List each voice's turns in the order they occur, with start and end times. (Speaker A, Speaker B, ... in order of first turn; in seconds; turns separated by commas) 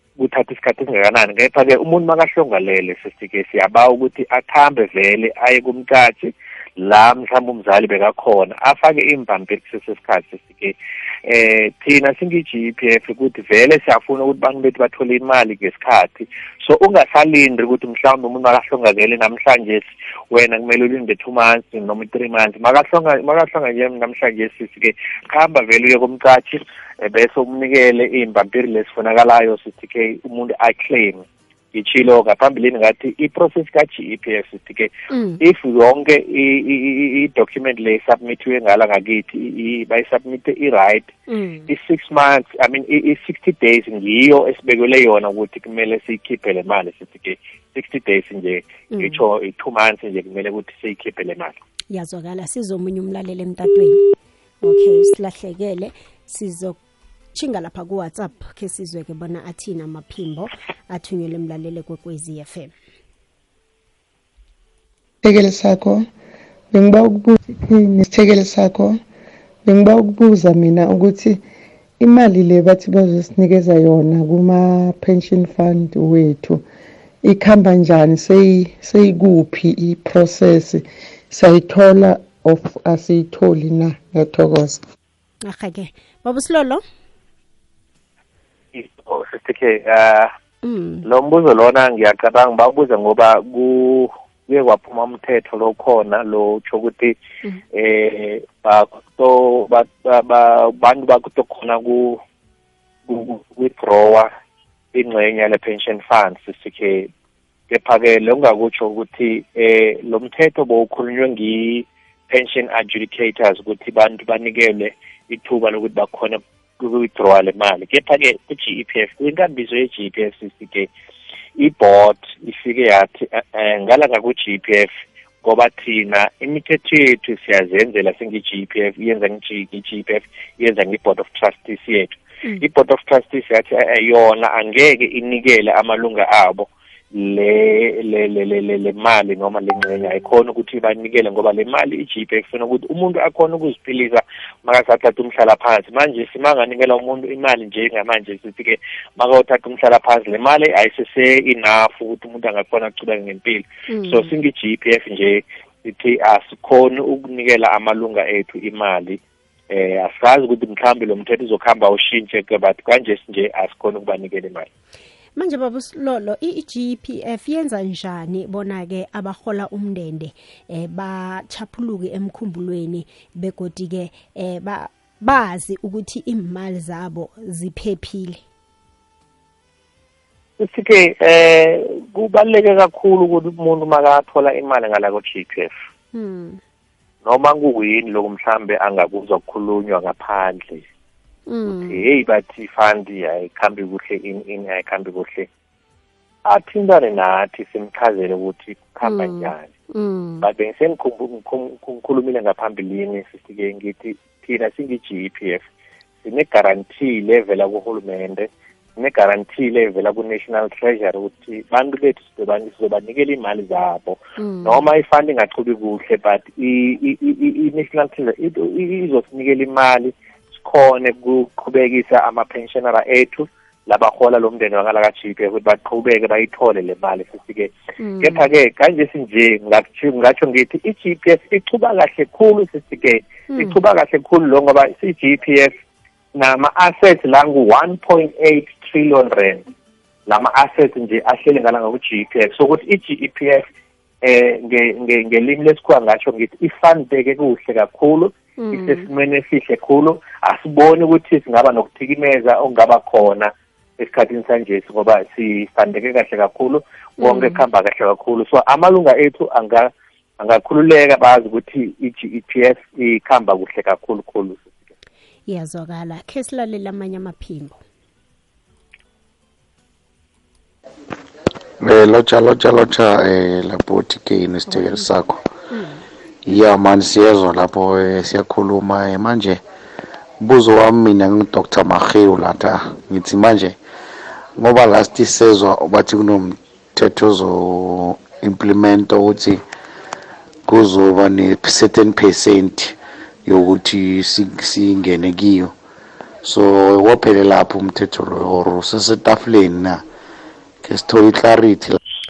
Speaker A: 0.2-41.1, Speaker B: 35.1-35.4, Speaker B: 41.3-41.7, Speaker A: 41.7-51.5, Speaker B: 48.9-49.2, Speaker B: 51.9-54.0, Speaker B: 54.6-56.8, Speaker B: 57.3-62.7, Speaker C: 65.2-66.0, Speaker C: 66.7-69.0, Speaker C: 69.6-71.4, Speaker C: 72.0-76.6, Speaker C: 77.2-84.8, Speaker B: 85.4-86.8, Speaker A: 88.7-90.3, Speaker B: 90.6-91.0, Speaker A: 91.0-97.1, Speaker A: 97.7-102.2, Speaker A: 103.1-104.3, Speaker A: 104.9-107.1, Speaker A: 107.7-120.9, Speaker A: 121.6-124.9, Speaker A: 125.4-164.7, Speaker B: 153.9-154.3, Speaker B: 165.3-178.4, Speaker A: 180.6-185.7, Speaker B: 186.1-186.6, Speaker A: 187.2-190.8, Speaker B: 191.5-192.0, Speaker A: 191.7-195.5, Speaker A: 196.4-199.7, Speaker B: 199.0-200.4, Speaker A: 200.4-205.6, Speaker A: 206.2-235.7, Speaker B: 214.4-214.8, Speaker B: 228.0-228.4, Speaker B: 233.5-233.8, Speaker A: 236.3-239.6, Speaker A: 240.3-243.6, Speaker A: 244.2-264.7, Speaker B: 248.6-249.1, Speaker B: 257.2-257.6, Speaker B: 265.5-267.8, Speaker D: 271.8-275.4, Speaker B: 274.7-275.1, Speaker B: 275.7-276.0, Speaker D: 276.4-279.6, Speaker D: 280.4-283.8, Speaker D: 284.6-289.6, Speaker D: 290.7-295.7, Speaker D: 296.4-300.0, Speaker D: 300.8-302.0